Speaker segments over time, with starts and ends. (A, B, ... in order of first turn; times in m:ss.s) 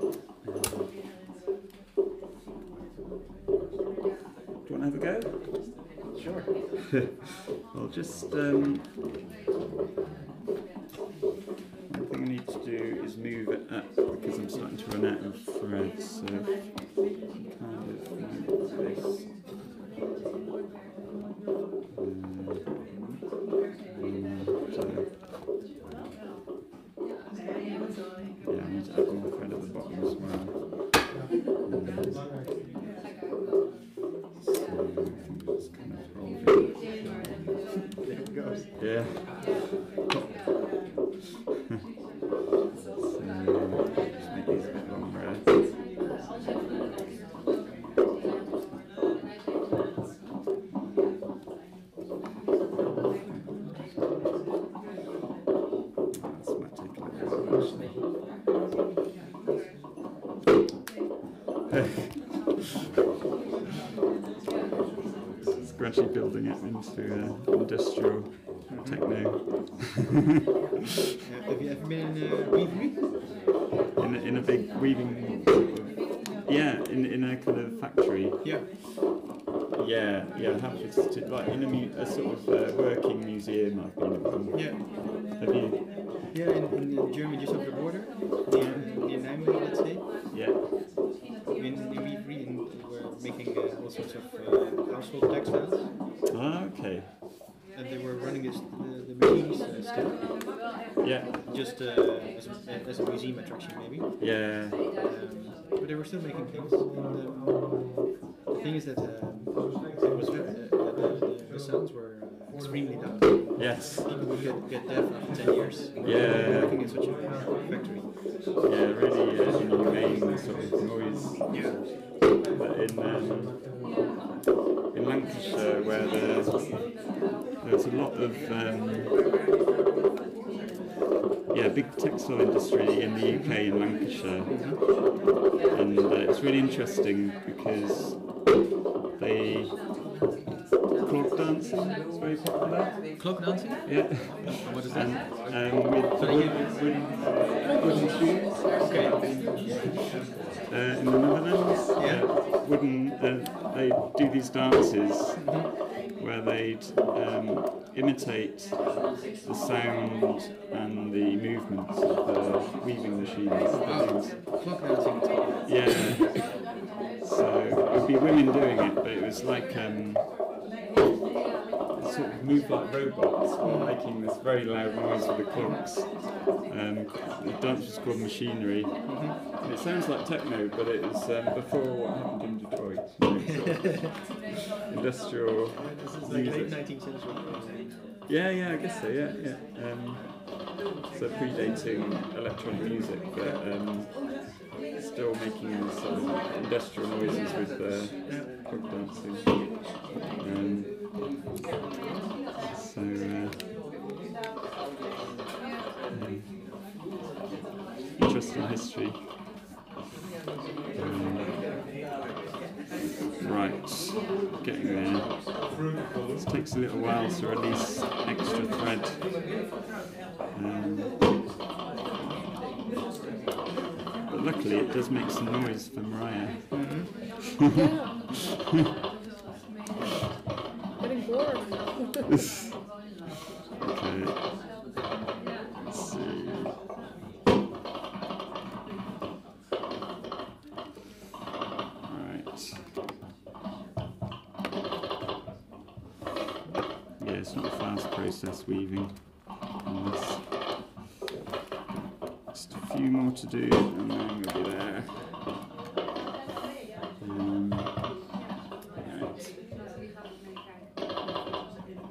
0:00.4-0:00.9 A
0:04.6-0:05.8 A
0:06.1-0:06.5 B
0:06.9-0:09.0 A
0:11.9-0:19.3 A
0:21.9-0:25.1 A
0:28.4-0:31.1 A
0:31.6-0:32.3 A
0:34.5-0:37.2 A
0:38.0-0:38.7 B
0:38.8-0:40.7 A
0:43.0-0:45.5 A
0:56.1-0:57.6 A
1:01.7-1:02.2 A
1:05.6-1:10.1 A
1:08.7-1:09.0 B
1:11.2-1:13.2 B
1:14.0-1:18.4 A
1:19.7-1:25.8 A
1:24.5-1:25.0 B
1:26.3-1:30.1 B
1:28.6-1:28.9 A
1:30.3-1:30.7 A
1:31.5-1:35.9 B
1:36.3-1:37.2 A
1:37.7-1:40.3 B
1:41.0-1:41.4 A
1:41.4-1:47.7 B
1:44.2-1:44.8 A
1:48.5-1:58.3 B
1:53.6-1:54.2 A
1:56.0-1:56.8 A
1:58.6-2:03.6 A
2:01.5-2:01.8 B
2:04.9-2:06.8 A
2:07.6-2:09.2 A
2:11.5-2:18.6 A
2:13.3-2:13.7 B
2:14.5-2:14.8 B
2:19.2-2:19.8 A
2:21.0-2:23.0 A
2:23.2-2:27.1 B
2:23.8-2:29.2 A
2:27.6-2:28.3 C
2:28.8-2:30.1 B
2:30.7-2:44.4 A
2:32.0-2:32.3 B
2:43.7-2:46.2 B
2:45.7-2:46.7 A
2:47.2-2:50.4 A
2:51.9-3:04.3 A
2:53.6-2:54.0 B
2:59.0-2:59.4 B
3:04.9-3:06.8 A
3:05.7-3:08.1 B
3:08.3-3:21.0 A
3:13.4-3:13.6 B
3:22.7-3:23.6 A
3:26.1-3:26.6 A
3:28.2-3:29.4 A
3:30.9-3:31.7 A
3:33.4-3:35.6 A
3:36.4-3:39.3 A
3:40.5-3:41.2 A
3:44.3-3:47.1 A
3:46.7-3:47.2 B
3:47.7-3:48.2 C
3:51.0-3:52.3 C
3:53.8-3:54.5 A
3:55.8-3:56.8 A
4:02.0-4:02.9 A
4:07.2-4:10.9 A
4:12.5-4:15.4 A
4:17.2-4:18.3 A
4:18.9-4:19.5 A